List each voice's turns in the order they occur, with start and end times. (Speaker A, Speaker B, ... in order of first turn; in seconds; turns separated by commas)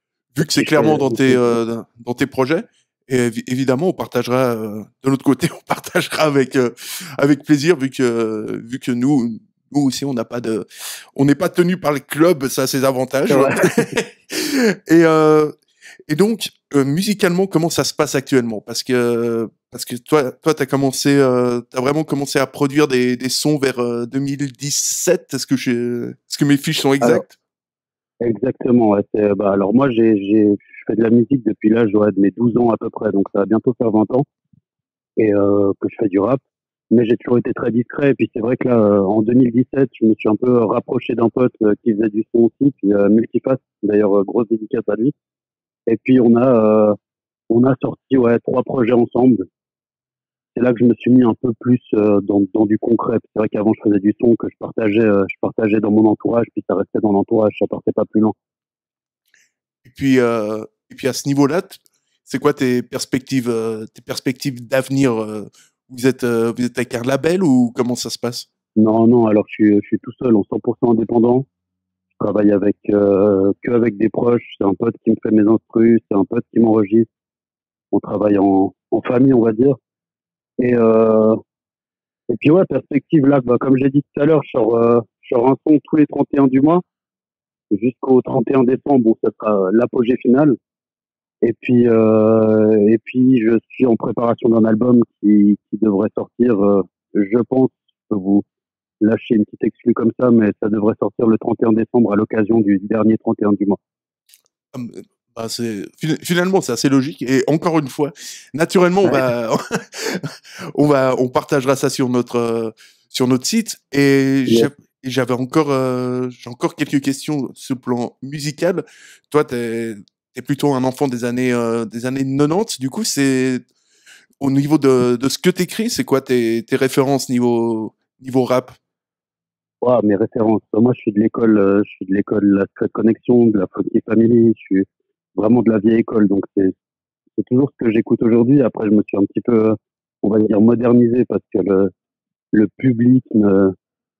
Speaker A: 0.3-15.5, Speaker B: 0.4-1.6, Speaker B: 13.3-13.7, Speaker A: 16.1-27.3, Speaker B: 28.2-34.2, Speaker B: 35.2-36.4, Speaker B: 36.9-45.1, Speaker B: 45.9-47.0, Speaker B: 47.5-49.4, Speaker B: 50.5-58.3, Speaker A: 59.8-68.5, Speaker B: 68.8-71.5, Speaker B: 72.2-77.1, Speaker B: 77.9-79.8, Speaker B: 80.6-81.4, Speaker B: 82.3-86.8, Speaker B: 87.7-90.5, Speaker B: 91.4-98.4, Speaker B: 99.0-103.8, Speaker A: 104.7-123.6, Speaker A: 124.4-128.8, Speaker B: 129.8-136.7, Speaker B: 137.4-141.9, Speaker B: 142.5-143.7